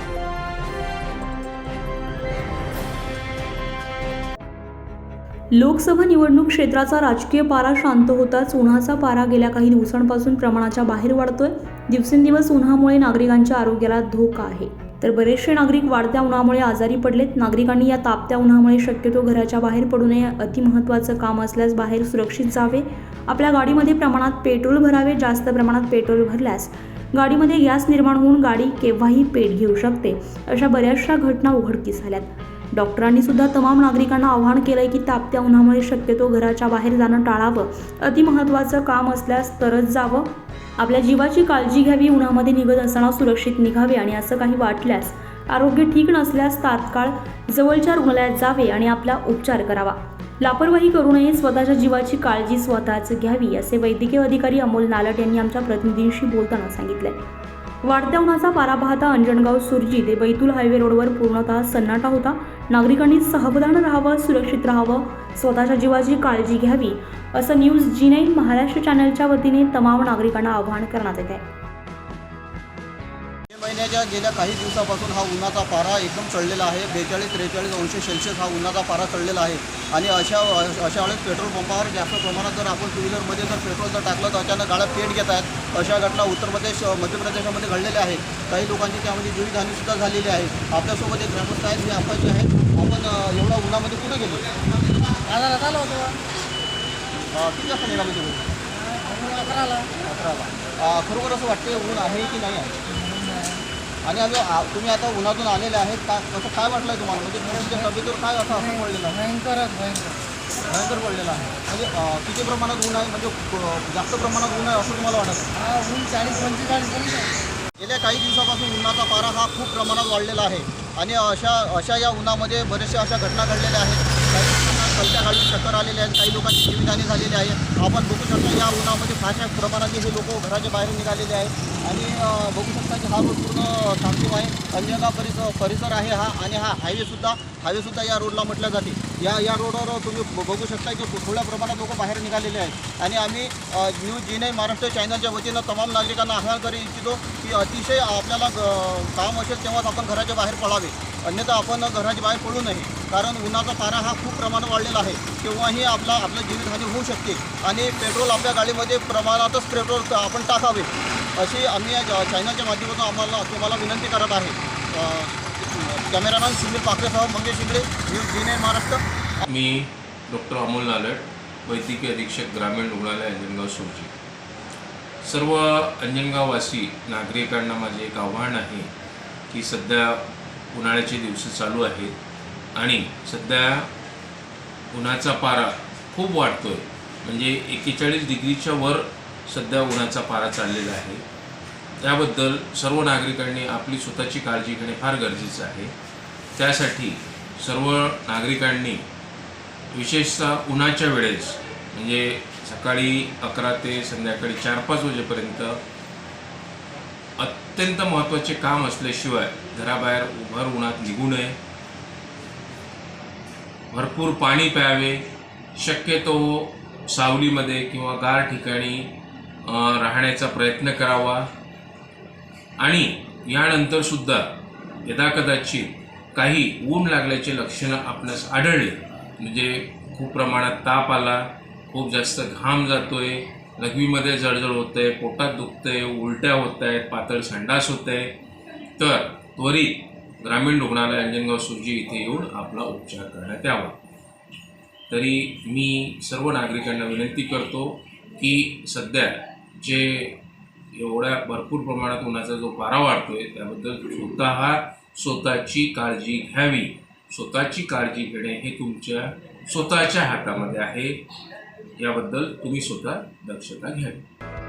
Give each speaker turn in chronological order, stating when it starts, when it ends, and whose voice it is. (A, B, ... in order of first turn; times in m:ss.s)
0:05.5-0:57.2 A
0:57.8-1:11.4 A
1:13.5-1:34.4 B
1:35.2-1:36.2 C
1:37.3-1:38.5 B
1:39.0-1:39.9 C
1:40.0-1:42.8 B
1:43.0-1:43.6 C
1:44.0-1:49.2 B
1:49.1-1:50.2 C
1:50.7-1:55.5 B
1:55.6-1:57.3 C
1:57.8-2:49.0 B
2:49.5-2:54.1 D
2:55.2-2:58.9 D
2:59.5-3:02.2 D
3:02.8-3:03.9 D
3:04.9-3:11.2 D
3:12.0-3:15.9 D
3:16.6-3:19.0 D
3:19.9-3:25.8 D
3:27.4-3:31.6 D
3:33.9-3:41.5 D
3:42.8-3:44.4 D
3:45.0-3:58.4 D
3:59.0-4:04.0 D
4:05.1-4:10.4 D
4:10.9-4:21.2 D
4:22.0-4:24.2 D